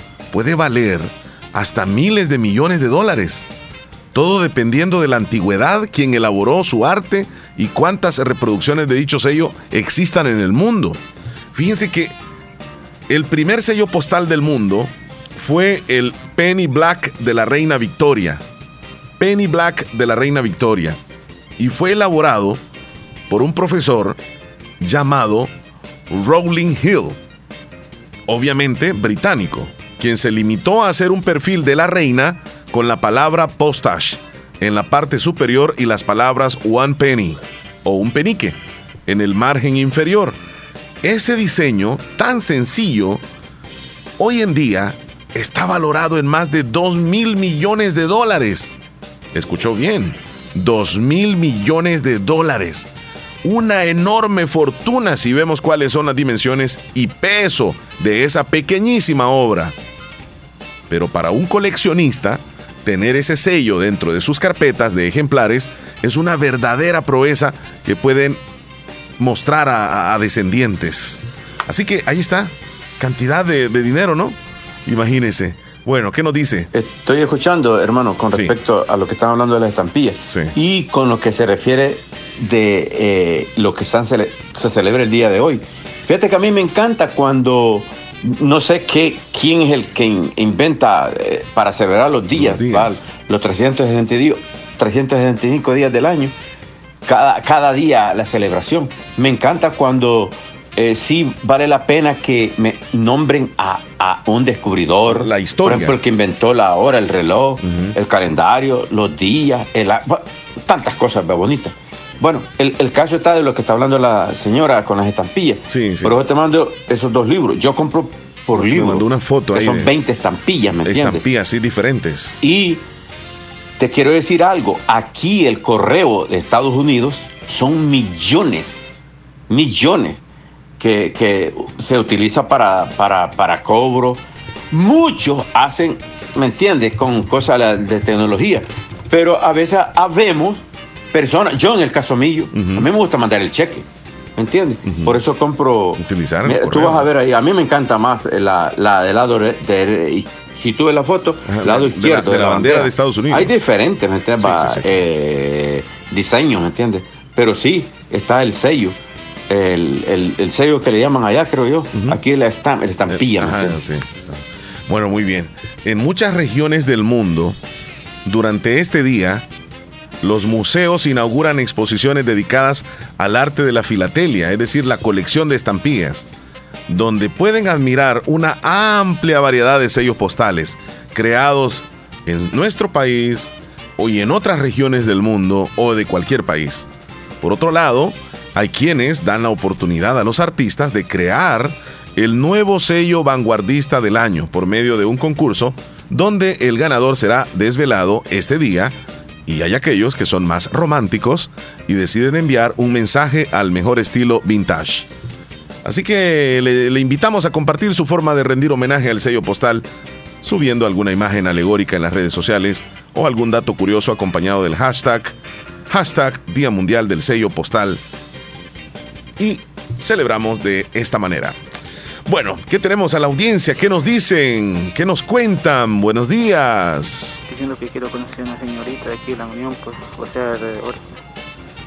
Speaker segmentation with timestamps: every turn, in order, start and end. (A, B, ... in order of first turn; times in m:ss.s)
0:00.3-0:03.5 A
0:04.1-0:11.0 A
0:11.5-0:12.1 A
0:13.1-0:18.4 A
0:19.2-0:21.0 A
0:21.6-0:22.6 A
0:23.3-0:24.2 A
0:24.8-0:25.5 A
0:26.1-0:27.2 A
0:28.3-0:40.4 A
0:41.0-0:43.2 A
0:44.2-0:48.7 A
0:49.3-0:52.9 A
0:53.4-0:59.7 A
1:00.9-1:08.4 A
1:09.2-1:16.7 A
1:16.7-1:36.3 B
1:18.3-1:18.6 A
1:20.3-1:20.5 A
1:32.3-1:33.0 A
1:37.0-2:01.2 B
1:45.0-1:46.0 A
1:47.6-1:48.0 A
1:55.7-1:56.2 A
1:58.5-1:59.9 A
2:00.8-2:02.4 A
2:02.4-2:02.8 B
2:03.8-2:08.8 B
2:09.5-2:10.2 B
2:10.8-2:23.8 B
2:22.5-2:22.9 A
2:24.4-2:39.0 B
2:24.8-2:25.2 A
2:26.0-2:27.1 A
2:31.4-2:33.5 A
2:34.4-2:35.0 A
2:39.5-2:43.8 B
2:41.9-2:42.2 A
2:43.1-2:47.6 A
2:48.2-2:49.4 A
2:50.2-2:56.3 A
2:56.9-3:06.9 A
3:07.4-3:25.1 A
3:25.8-3:29.8 A
3:30.4-3:35.3 A
3:35.9-3:38.0 A
3:39.4-3:41.6 A
3:42.3-3:47.4 A
3:47.5-3:51.1 C